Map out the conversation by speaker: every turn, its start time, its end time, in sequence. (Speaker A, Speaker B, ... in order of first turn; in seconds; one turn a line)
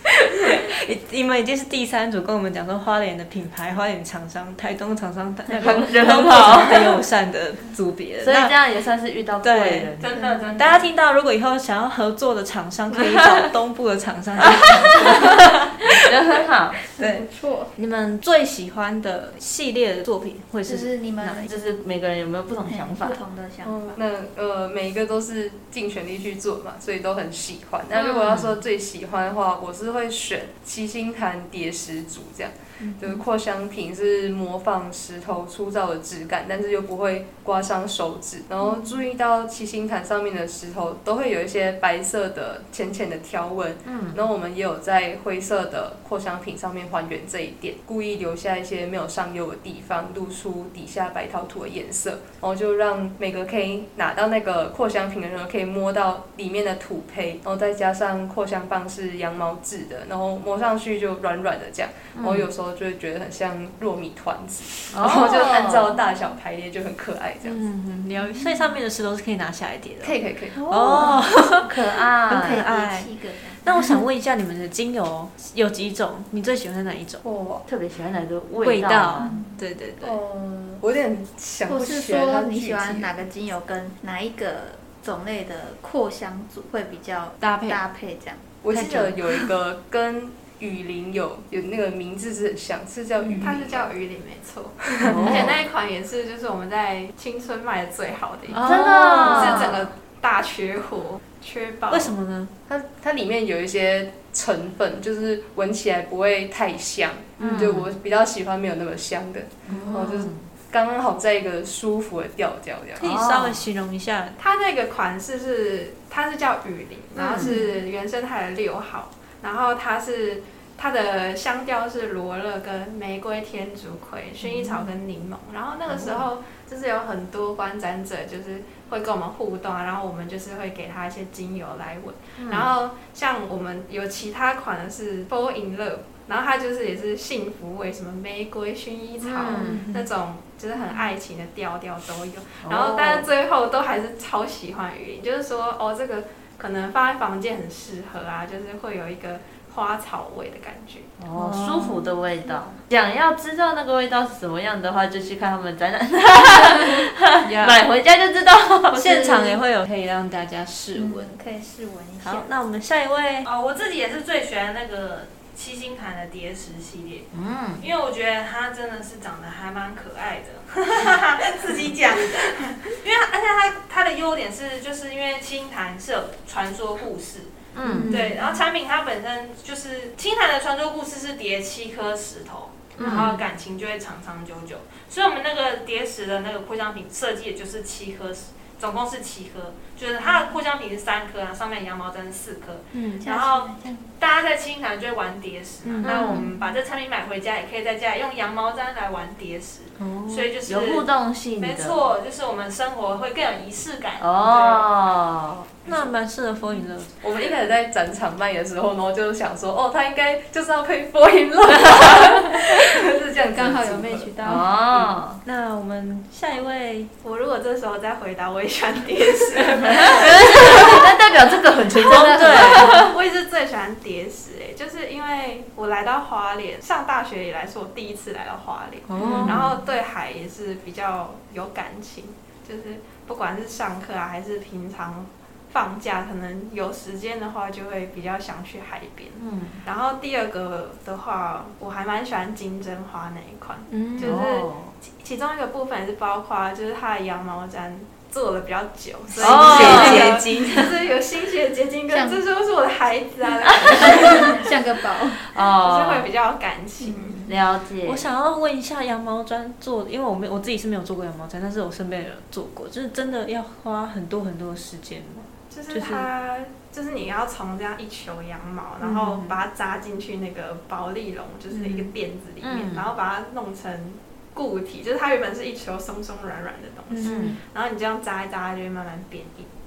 Speaker A: 0.4-8.5
Speaker B: 5.5-7.0
Speaker B: 8.2-10.2
Speaker A: 9.4-9.9
Speaker C: 10.0-10.9
Speaker D: 10.1-10.5
Speaker A: 10.6-16.0
Speaker B: 14.5-15.2
Speaker B: 15.9-16.8
Speaker A: 17.0-17.2
Speaker D: 17.0-17.7
Speaker A: 17.8-21.5
Speaker D: 20.6-21.5
Speaker B: 21.4-23.2
Speaker D: 22.7-24.0
Speaker E: 23.6-67.6
Speaker A: 32.8-33.2
Speaker B: 43.9-44.2
Speaker B: 62.1-62.5
Speaker B: 64.9-65.9
Speaker A: 67.4-77.2
Speaker E: 70.0-70.7
Speaker B: 70.7-72.6
Speaker D: 72.3-74.0
Speaker E: 77.2-77.7
Speaker B: 77.7-79.3
Speaker A: 78.6-80.2
Speaker D: 79.2-79.6
Speaker E: 80.0-83.1
Speaker D: 81.7-88.5
Speaker A: 87.4-87.8
Speaker E: 88.6-93.9
Speaker A: 88.7-89.5
Speaker A: 93.2-93.5
Speaker F: 93.4-102.1
Speaker E: 94.9-95.3
Speaker B: 95.1-95.6
Speaker A: 95.1-95.4
Speaker A: 98.5-99.8
Speaker B: 98.6-99.8
Speaker A: 101.9-102.5
Speaker E: 102.7-113.0
Speaker B: 107.4-107.9
Speaker A: 109.7-110.2
Speaker B: 109.7-110.3
Speaker A: 113.0-114.4
Speaker B: 113.0-113.6
Speaker F: 114.4-151.1
Speaker B: 117.2-117.6
Speaker D: 117.3-117.7
Speaker A: 124.5-124.8
Speaker B: 132.4-132.7
Speaker B: 139.2-139.8
Speaker A: 139.5-140.1
Speaker B: 142.6-143.3
Speaker B: 151.2-159.6
Speaker A: 151.3-152.0
Speaker A: 157.4-157.8
Speaker A: 158.9-161.3
Speaker D: 160.9-162.5
Speaker A: 162.2-163.5
Speaker C: 163.4-167.3
Speaker B: 167.3-167.8
Speaker C: 167.8-177.5
Speaker B: 177.7-178.1
Speaker A: 177.8-178.4
Speaker C: 178.1-201.1
Speaker B: 182.9-183.4
Speaker A: 183.0-183.4
Speaker A: 192.9-193.3
Speaker D: 193.2-194.1
Speaker A: 195.8-196.5
Speaker B: 196.0-196.5
Speaker A: 200.0-200.5
Speaker B: 200.7-202.0
Speaker C: 201.6-204.8
Speaker B: 204.2-205.7
Speaker A: 205.8-207.1
Speaker E: 207.2-214.3
Speaker D: 213.4-214.7
Speaker B: 214.4-215.4
Speaker A: 215.4-217.1
Speaker F: 217.2-221.1
Speaker A: 219.8-220.2
Speaker B: 219.9-223.1
Speaker F: 221.9-254.7
Speaker A: 222.0-223.0
Speaker A: 229.1-229.7
Speaker B: 229.2-229.8
Speaker B: 239.4-239.8
Speaker A: 243.9-244.4
Speaker B: 244.2-244.9
Speaker A: 249.3-251.0
Speaker B: 249.4-250.4
Speaker D: 252.1-252.4
Speaker B: 253.6-254.5
Speaker D: 253.8-255.4
Speaker B: 255.4-256.3
Speaker F: 255.7-257.5
Speaker D: 257.0-257.4
Speaker B: 257.4-258.2
Speaker A: 258.0-266.3
Speaker F: 265.7-279.7
Speaker A: 269.0-269.6
Speaker A: 271.7-272.1
Speaker B: 272.6-273.1
Speaker A: 277.1-277.5
Speaker B: 277.2-277.6